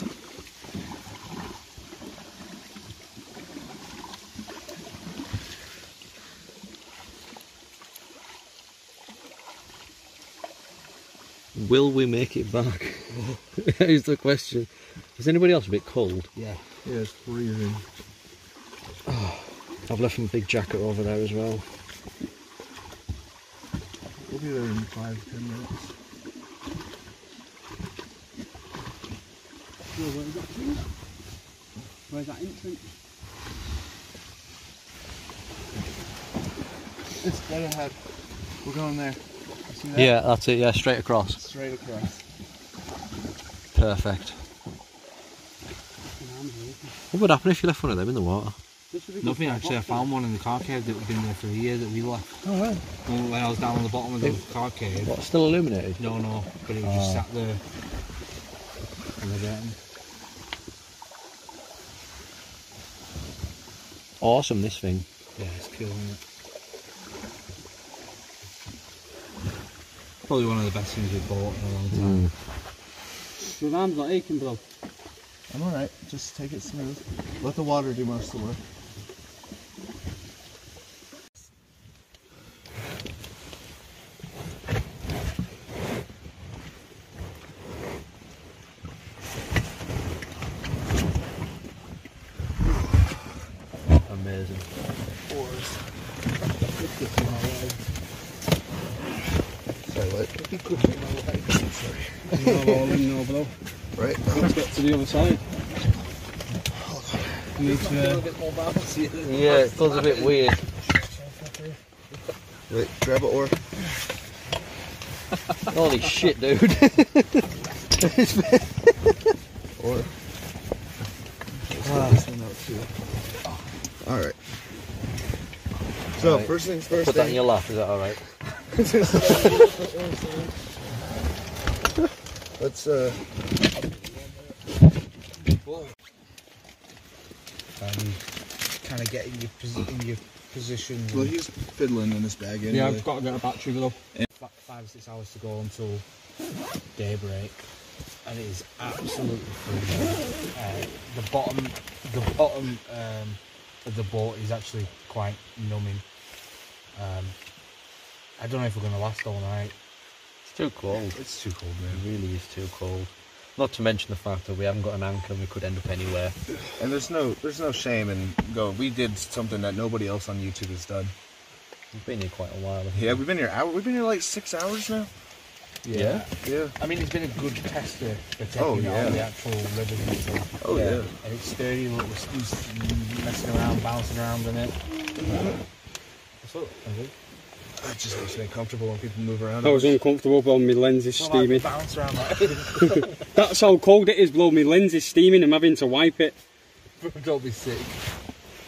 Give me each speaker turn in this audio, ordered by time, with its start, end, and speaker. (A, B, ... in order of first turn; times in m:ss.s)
0:11.6-0:16.3 A
0:13.1-0:13.4 B
0:16.4-0:16.6 B
0:16.8-0:17.8 C
0:19.1-0:21.7 A
0:24.3-0:25.9 C
0:30.0-0:30.8 D
0:32.1-0:32.9 D
0:37.2-0:38.0 C
0:38.6-0:40.1 C
0:40.0-0:41.4 A
0:41.4-0:42.2 C
0:43.7-0:44.4 A
0:46.2-0:46.9 D
0:47.1-0:48.6 A
0:48.9-0:50.1 D
0:49.2-0:52.3 B
0:52.4-0:52.8 A
0:53.1-0:55.1 B
0:55.0-0:56.0 A
0:56.0-0:57.6 B
0:56.8-0:57.3 A
0:59.2-0:59.8 B
1:04.2-1:05.1 A
1:05.4-1:06.2 B
1:10.3-1:12.3 B
1:12.0-1:12.3 A
1:13.4-1:14.6 D
1:15.5-1:18.6 C
1:34.1-1:34.7 A
1:35.3-1:35.8 B
1:36.8-1:37.8 B
1:39.9-1:40.3 C
1:40.3-1:41.8 B
1:41.7-1:42.0 C
1:42.3-1:43.5 D
1:44.0-1:44.5 C
1:44.3-1:45.4 D
1:46.8-1:47.3 C
1:47.6-1:48.2 D
1:47.6-1:51.8 B
1:49.2-1:50.6 A
1:52.7-1:53.6 C
1:55.7-1:59.1 A
1:59.8-2:00.1 C
2:01.6-2:02.9 C
2:01.8-2:02.2 A
2:04.0-2:04.4 C
2:06.2-2:07.5 C
2:06.2-2:08.2 A
2:08.7-2:10.5 C
2:09.2-2:09.7 B
2:12.6-2:13.3 C
2:17.8-2:18.2 B
2:18.8-2:21.4 B
2:21.1-2:23.1 C
2:22.7-2:24.0 D
2:24.3-2:26.0 B
2:27.0-2:27.6 B
2:28.2-2:36.0 B
2:37.0-2:37.4 B
2:38.4-2:39.8 B
2:40.5-2:41.2 A
2:41.1-2:42.0 C
2:41.9-2:46.4 A
2:46.8-2:51.1 C
2:51.9-2:53.2 A
2:52.9-2:55.1 C
2:55.8-3:04.8 B
2:55.9-2:56.3 A
2:56.4-2:56.7 C
2:58.6-2:59.3 C
3:00.6-3:01.1 C
3:05.3-3:05.5 C
3:06.4-3:07.1 B
3:07.8-3:10.0 C
3:09.6-3:11.7 D
3:11.2-3:13.1 B
3:12.8-3:16.4 D
3:17.0-3:18.0 B